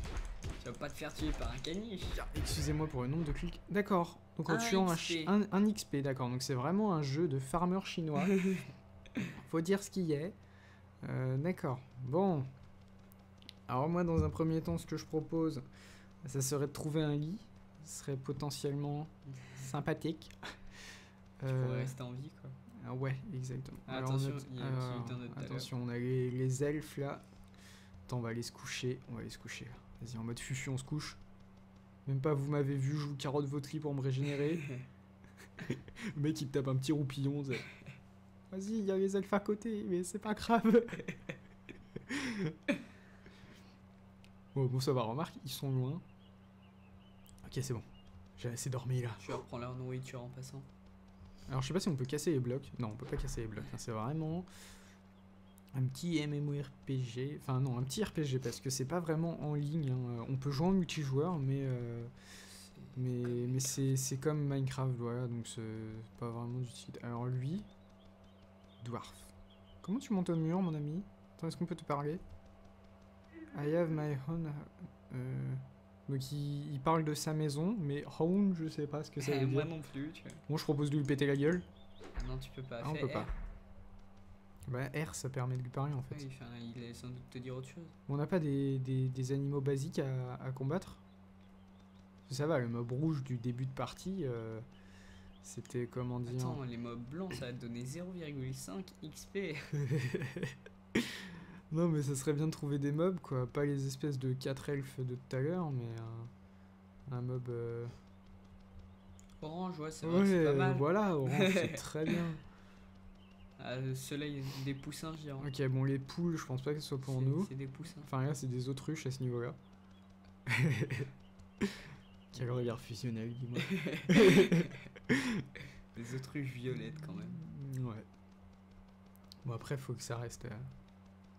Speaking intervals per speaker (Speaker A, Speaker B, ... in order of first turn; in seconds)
Speaker A: 0.6-2.2, 4.5-5.3, 8.3-8.6, 19.3-19.6, 21.4-22.5, 23.9-25.7, 49.2-50.7, 62.5-63.9, 79.2-80.4, 82.1-83.3, 86.1-87.9, 96.2-99.7, 109.4-112.2, 113.6-115.5, 117.0-118.1, 123.6-124.7, 125.9-127.4
Speaker B: 2.1-8.3, 9.2-10.3, 11.0-12.5, 13.7-15.6, 16.2-20.3, 21.4-21.9, 22.8-27.2, 28.1-31.2, 32.0-34.6, 35.6-37.7, 38.5-41.0, 42.1-42.5, 44.5-46.0, 47.4-47.8, 48.4-49.4, 51.5-54.5, 55.7-62.1, 63.0-67.7, 68.8-69.3, 69.8-72.2, 73.5-79.7, 80.5-81.7, 82.8-83.3, 84.7-86.2, 88.1-91.0, 92.3-94.6, 95.4-96.6, 99.8-106.3, 107.1-107.9, 110.0-112.4, 115.4-119.6, 120.5-121.1, 122.3-125.4, 126.7-128.1, 129.4-130.7